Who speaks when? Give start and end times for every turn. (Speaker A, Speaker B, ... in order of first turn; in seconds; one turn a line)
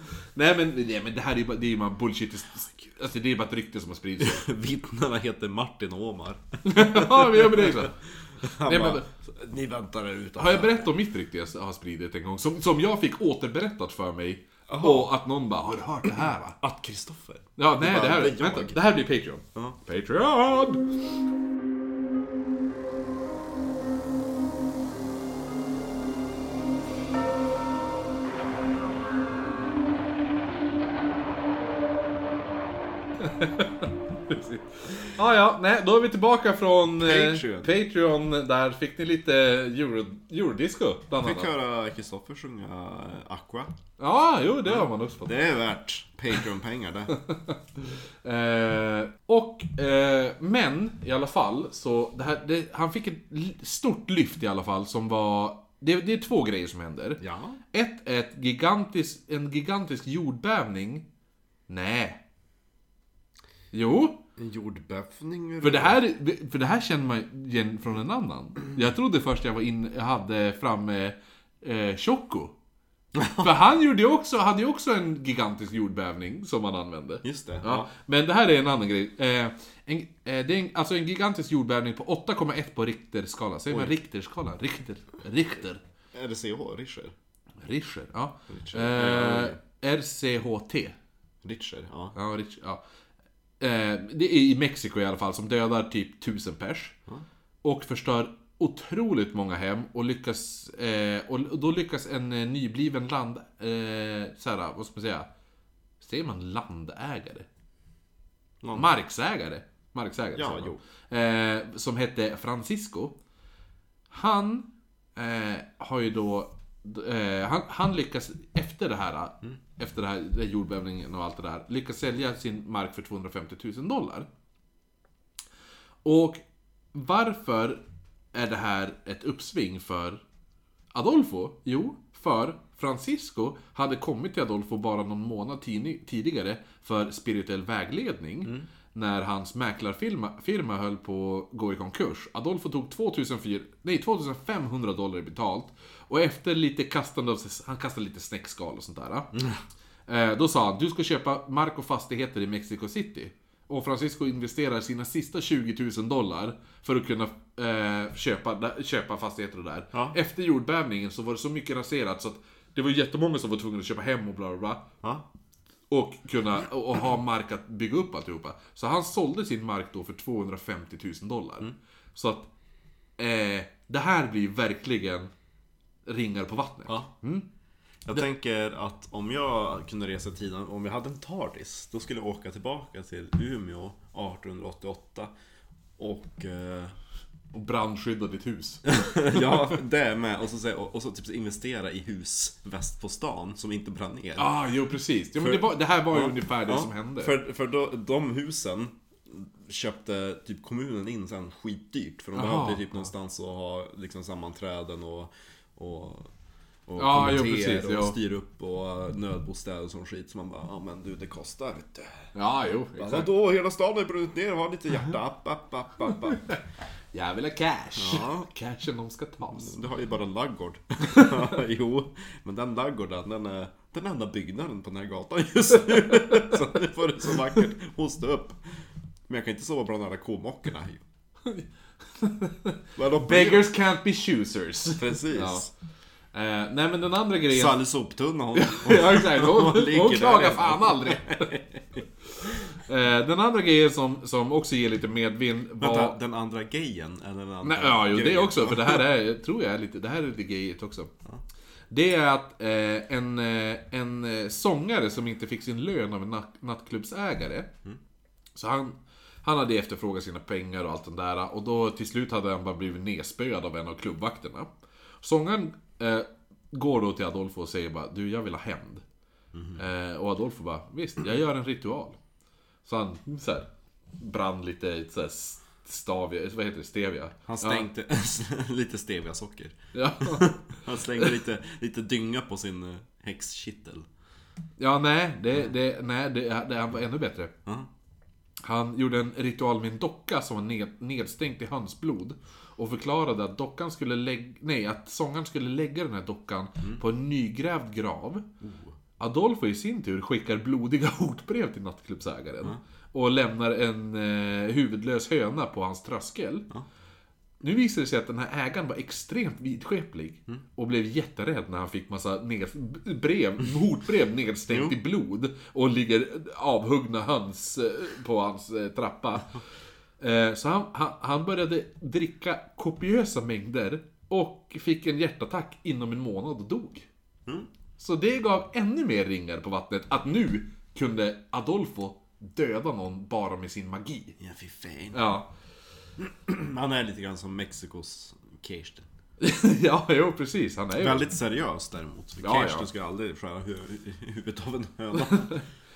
Speaker A: 0.3-4.5
Speaker B: 4.2-10.9
Speaker A: 6.7-8.0
Speaker A: 8.6-9.1
Speaker A: 10.4-16.6
Speaker B: 14.7-15.1
Speaker B: 16.6-18.8
Speaker A: 17.6-21.0
Speaker A: 33.2-41.5
Speaker B: 37.0-37.7
Speaker B: 41.2-43.8
Speaker A: 44.0-45.4
Speaker B: 44.7-47.2
Speaker A: 47.1-57.2
Speaker B: 57.2-57.6
Speaker A: 57.7-61.1
Speaker A: 61.7-62.2
Speaker A: 63.7-64.2
Speaker B: 64.4-66.0
Speaker A: 65.6-72.5
Speaker B: 73.2-73.5
Speaker A: 73.3-85.8
Speaker B: 77.2-77.9
Speaker B: 83.7-84.0
Speaker B: 86.1-87.2
Speaker A: 87.6-91.0
Speaker B: 88.5-89.6
Speaker B: 91.4-92.2
Speaker A: 92.2-92.8
Speaker A: 93.6-97.0
Speaker A: 97.6-105.3
Speaker A: 106.0-107.5
Speaker B: 108.6-108.9
Speaker A: 108.7-113.2
Speaker B: 110.3-110.8
Speaker A: 114.1-124.3
Speaker A: 126.0-126.4
Speaker A: 126.9-127.8
Speaker A: 128.3-130.2
Speaker A: 130.9-149.3
Speaker B: 149.3-149.6
Speaker A: 150.1-164.9
Speaker A: 165.9-172.5
Speaker A: 173.2-175.3
Speaker A: 176.1-177.5
Speaker B: 178.1-185.3
Speaker B: 186.0-187.0
Speaker A: 187.5-189.7
Speaker B: 188.9-194.5
Speaker A: 194.4-197.4
Speaker B: 195.4-206.3
Speaker A: 202.3-203.1
Speaker B: 206.9-212.3
Speaker A: 207.0-208.2
Speaker A: 212.3-213.3
Speaker B: 213.0-216.5
Speaker A: 216.3-216.6
Speaker A: 217.1-219.8
Speaker B: 218.0-218.5
Speaker B: 219.5-228.6
Speaker A: 221.1-221.4
Speaker A: 226.0-226.6
Speaker B: 229.3-231.1
Speaker A: 232.2-235.7
Speaker B: 233.0-233.7
Speaker B: 235.0-235.7
Speaker A: 236.3-237.8
Speaker B: 237.5-242.7
Speaker A: 238.6-241.6
Speaker A: 242.4-246.2
Speaker B: 245.8-249.1
Speaker A: 247.6-251.1
Speaker A: 251.9-257.7
Speaker A: 258.6-264.7
Speaker A: 265.2-269.0
Speaker B: 269.5-269.8
Speaker A: 269.8-272.2
Speaker A: 272.9-277.9
Speaker B: 277.5-284.1
Speaker A: 279.9-281.3
Speaker A: 284.8-287.5
Speaker A: 288.6-298.5
Speaker B: 298.6-298.9
Speaker A: 299.2-306.7
Speaker A: 307.6-319.6
Speaker B: 314.7-315.0
Speaker A: 320.2-327.1
Speaker A: 328.0-334.4
Speaker B: 334.4-335.2
Speaker A: 335.1-335.5
Speaker B: 336.2-339.1
Speaker A: 339.4-341.3
Speaker B: 341.0-345.6
Speaker A: 342.4-342.9
Speaker A: 345.1-345.6